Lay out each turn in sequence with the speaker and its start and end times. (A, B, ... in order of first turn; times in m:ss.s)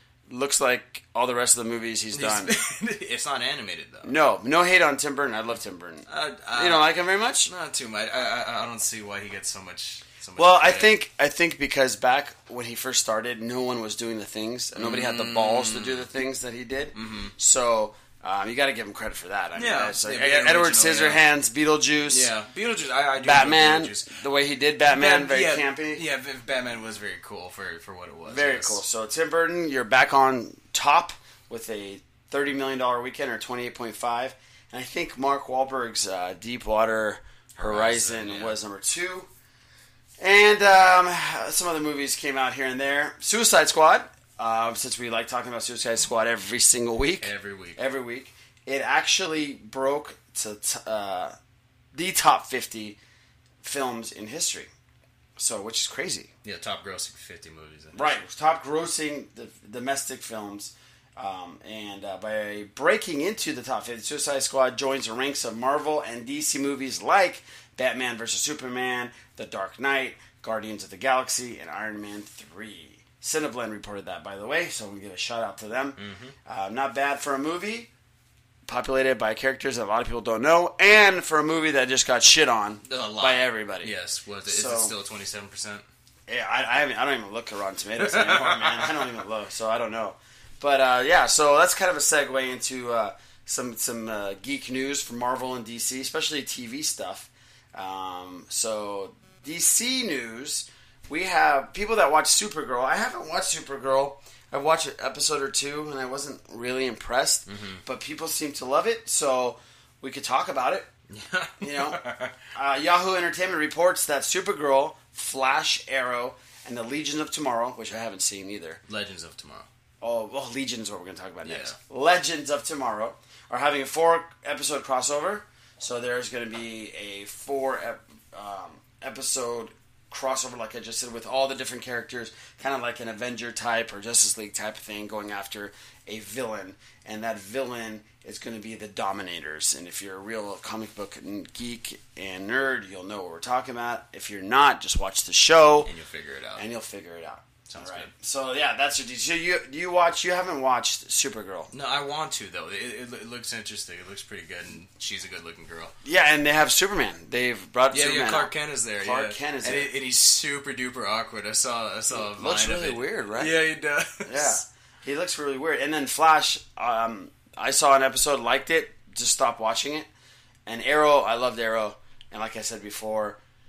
0:00.3-0:02.5 A
0:02.1-0:04.2 B
0:04.0-0:07.5 A
0:06.1-0:06.9 B
0:07.5-0:10.9 B
0:10.4-0:22.3 A
0:14.8-0:16.1 B
0:17.0-0:17.3 B
0:19.6-0:21.2 B
0:22.1-0:24.1 B
0:23.2-0:26.0 A
0:24.9-0:28.8 B
0:28.3-0:39.3 A
0:37.6-0:38.6 B
0:40.2-0:51.4 A
0:47.2-0:47.8 B
0:51.9-0:53.0 A
0:53.6-0:54.7 A
0:55.4-0:56.3 A
0:56.4-0:58.2 B
0:58.0-1:17.9 A
1:16.0-1:16.4 B
1:18.7-1:23.9 A
1:22.9-1:25.8 B
1:24.5-1:24.9 A
1:26.3-1:50.9 A
1:28.0-1:29.0 B
1:47.5-1:47.8 B
1:51.1-1:52.4 B
1:51.6-1:52.0 A
1:52.5-1:58.8 A
1:58.9-1:59.7 B
2:00.0-2:25.9 A
2:01.4-2:01.8 B
2:25.8-2:26.6 B
2:26.6-2:31.7 A
2:27.7-2:28.1 B
2:31.7-2:35.9 B
2:36.0-2:39.9 A
2:37.9-2:44.6 B
2:42.1-2:43.5 A
2:44.2-2:50.1 A
2:50.7-2:53.4 A